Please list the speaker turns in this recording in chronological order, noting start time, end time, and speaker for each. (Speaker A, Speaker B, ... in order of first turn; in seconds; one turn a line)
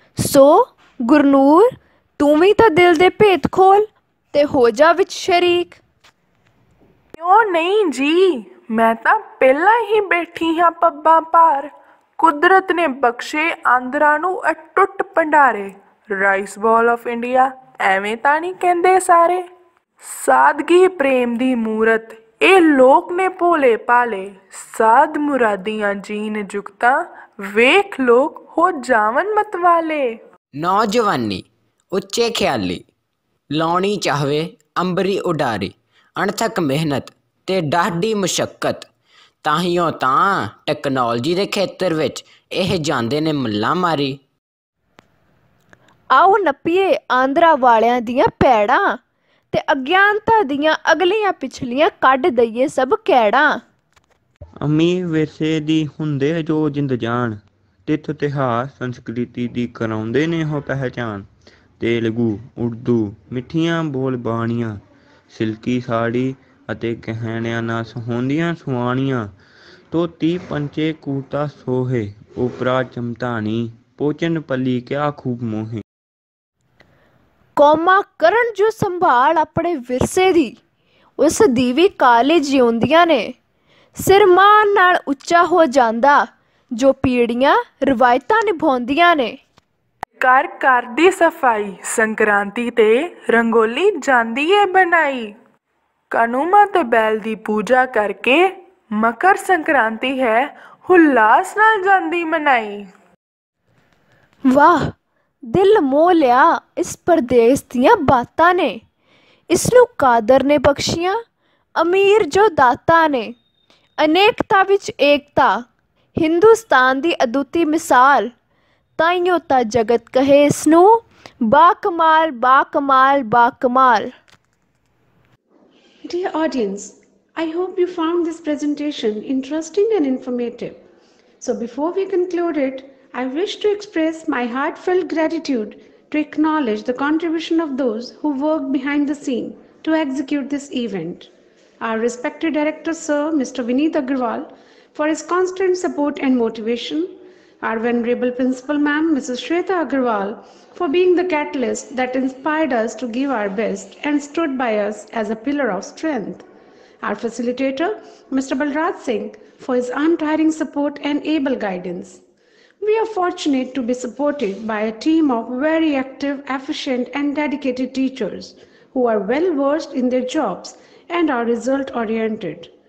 Speaker A: 0.2-5.8
Speaker B: 7.2-19.4
Speaker B: 20.0-30.2
Speaker C: 30.6-32.8
Speaker C: 33.5-38.9
Speaker C: 39.4-44.2
Speaker A: 46.1-49.0
Speaker A: 49.5-53.6
Speaker D: 54.6-61.3
Speaker D: 61.8-69.3
Speaker D: 69.9-75.8
Speaker A: 77.6-80.6
Speaker A: 81.2-83.3
Speaker A: 84.0-89.4
Speaker B: 90.2-95.3
Speaker B: 96.1-102.9
Speaker A: 104.5-104.9
Speaker A: 105.5-108.8
Speaker A: 109.5-111.2
Speaker A: 111.8-113.3
Speaker A: 114.0-118.3
Speaker A: 119.0-124.1
Speaker E: 126.0-130.8
Speaker E: 131.4-156.4
Speaker E: 157.0-162.2
Speaker E: 162.8-172.7